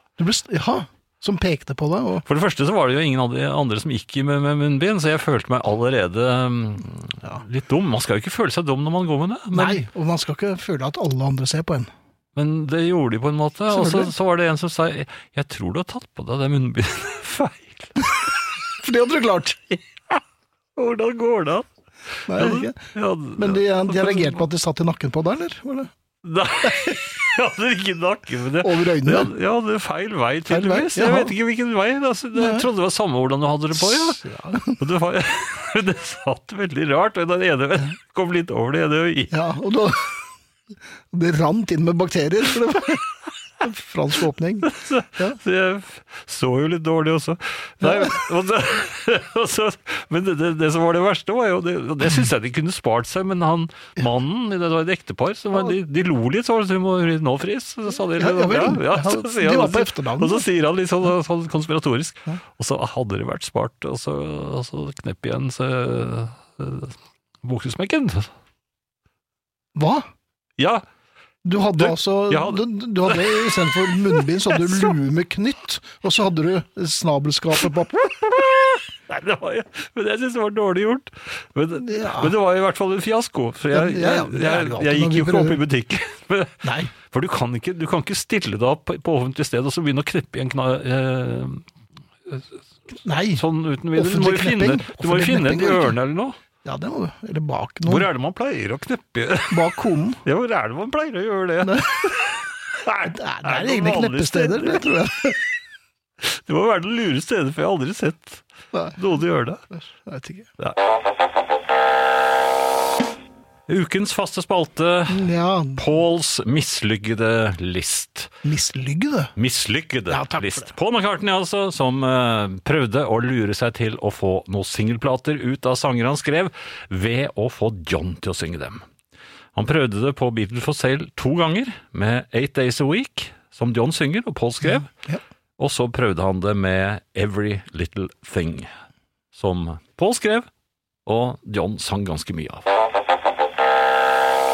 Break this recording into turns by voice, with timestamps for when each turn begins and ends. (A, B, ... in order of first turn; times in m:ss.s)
0:00.2-0:02.3 A
0:02.3-0:09.8 B
0:09.5-0:11.9 A
0:12.4-0:18.3 B
0:13.7-0:14.1 A
0:18.8-0:19.8 A
0:20.8-0:21.7 B
0:22.3-0:25.9 A
0:22.3-0:24.4 B
0:26.2-0:34.2 B
0:28.6-0:29.3 A
0:30.5-0:31.3 A
0:32.4-0:32.7 A
0:33.8-0:34.8 A
0:34.8-0:39.3 B
0:39.3-0:40.2 A
0:41.1-0:43.1 A
0:43.6-0:45.4 A
0:44.6-1:08.3 B
0:47.8-0:48.2 A
0:58.0-1:00.4 A
1:09.8-1:10.1 A
1:10.6-1:10.8 B
1:11.4-1:18.1 A
1:11.7-1:14.9 B
1:18.0-1:31.6 B
1:21.8-1:22.3 A
1:23.7-1:25.6 A
1:26.6-1:26.9 A
1:32.3-1:32.6 B
1:33.0-1:36.0 A
1:33.4-1:36.4 B
1:36.6-1:38.1 A
1:37.9-1:44.9 B
1:39.5-1:40.2 A
1:41.6-1:42.2 A
1:43.0-1:45.4 A
1:46.2-1:48.4 B
1:48.7-1:49.0 A
1:49.0-1:49.6 B
1:50.0-1:50.5 A
1:53.7-1:58.3 B
1:55.1-1:55.9 A
1:58.4-1:59.3 A
1:59.4-2:08.8 B
2:00.1-2:00.7 A
2:09.6-2:14.9 B
2:15.6-2:18.7 B
2:19.3-2:20.5 B
2:21.1-2:22.6 B